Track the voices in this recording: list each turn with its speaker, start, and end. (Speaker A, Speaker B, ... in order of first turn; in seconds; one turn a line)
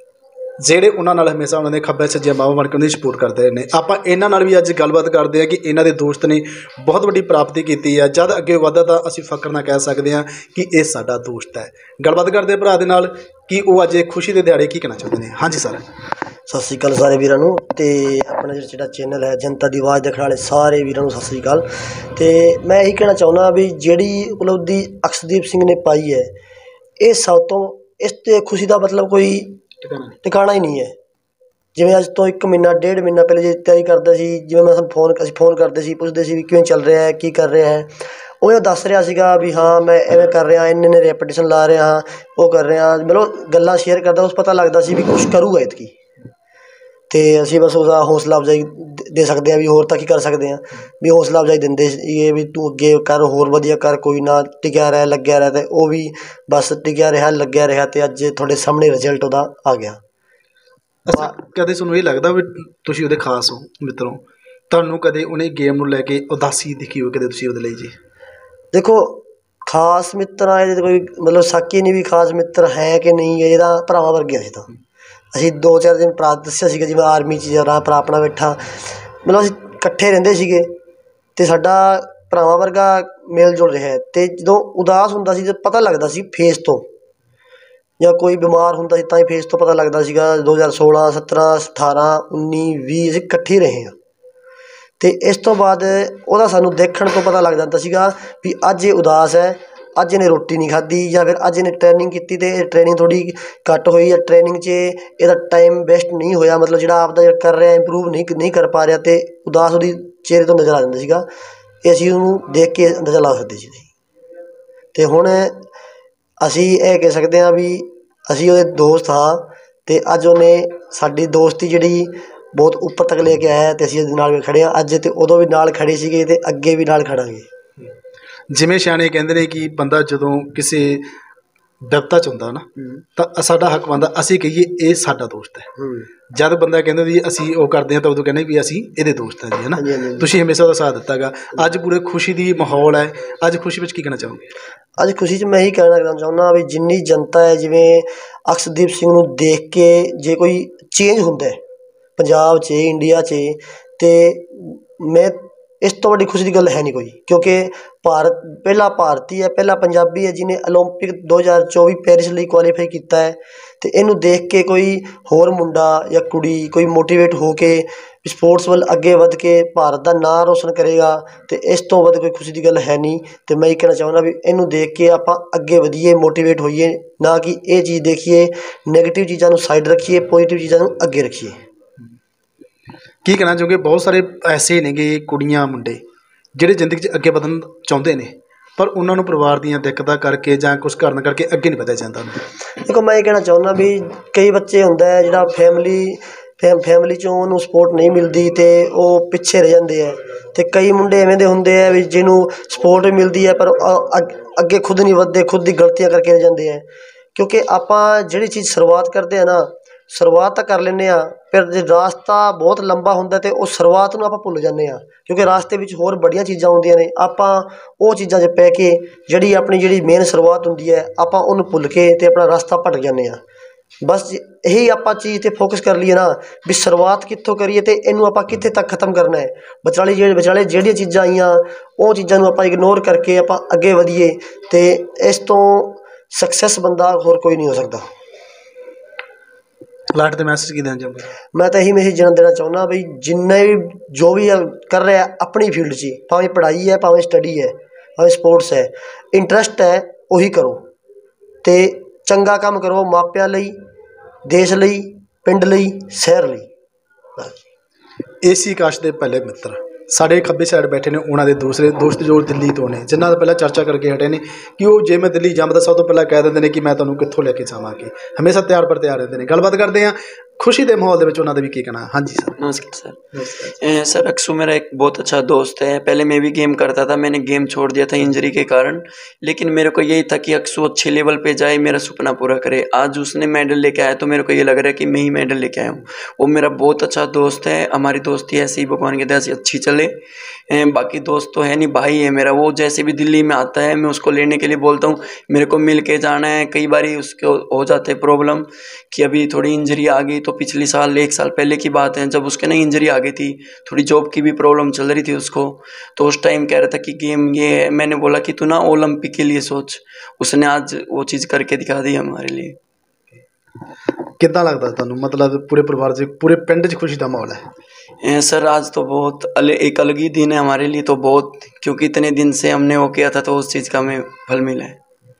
Speaker A: 0.6-15.8
Speaker B: 16.5-26.3
Speaker B: 27.0-29.6
Speaker A: 29.9-30.1
Speaker B: 30.2-30.9
Speaker B: 31.8-45.9
Speaker B: 47.1-60.0
Speaker A: 61.1-68.0
Speaker B: 68.7-74.7
Speaker B: 75.3-78.6
Speaker B: 79.2-80.7
Speaker B: 81.4-86.9
Speaker B: 88.0-94.0
Speaker B: 95.0-111.3
Speaker B: 111.8-113.9
Speaker B: 114.9-115.6
Speaker B: 116.4-127.5
Speaker A: 128.5-131.1
Speaker A: 131.9-135.7
Speaker B: 135.8-136.1
Speaker A: 136.3-144.5
Speaker B: 139.8-140.2
Speaker B: 145.0-151.6
Speaker B: 152.2-181.6
Speaker A: 183.2-186.0
Speaker A: 186.6-192.4
Speaker B: 192.8-223.4
Speaker B: 224.0-238.1
Speaker A: 240.1-241.3
Speaker B: 241.5-250.8
Speaker B: 251.6-253.8
Speaker B: 254.5-256.7
Speaker A: 258.4-272.6
Speaker C: 272.6-290.1
Speaker A: 273.4-273.7
Speaker C: 290.7-312.8
Speaker A: 314.4-317.6
Speaker C: 318.2-325.0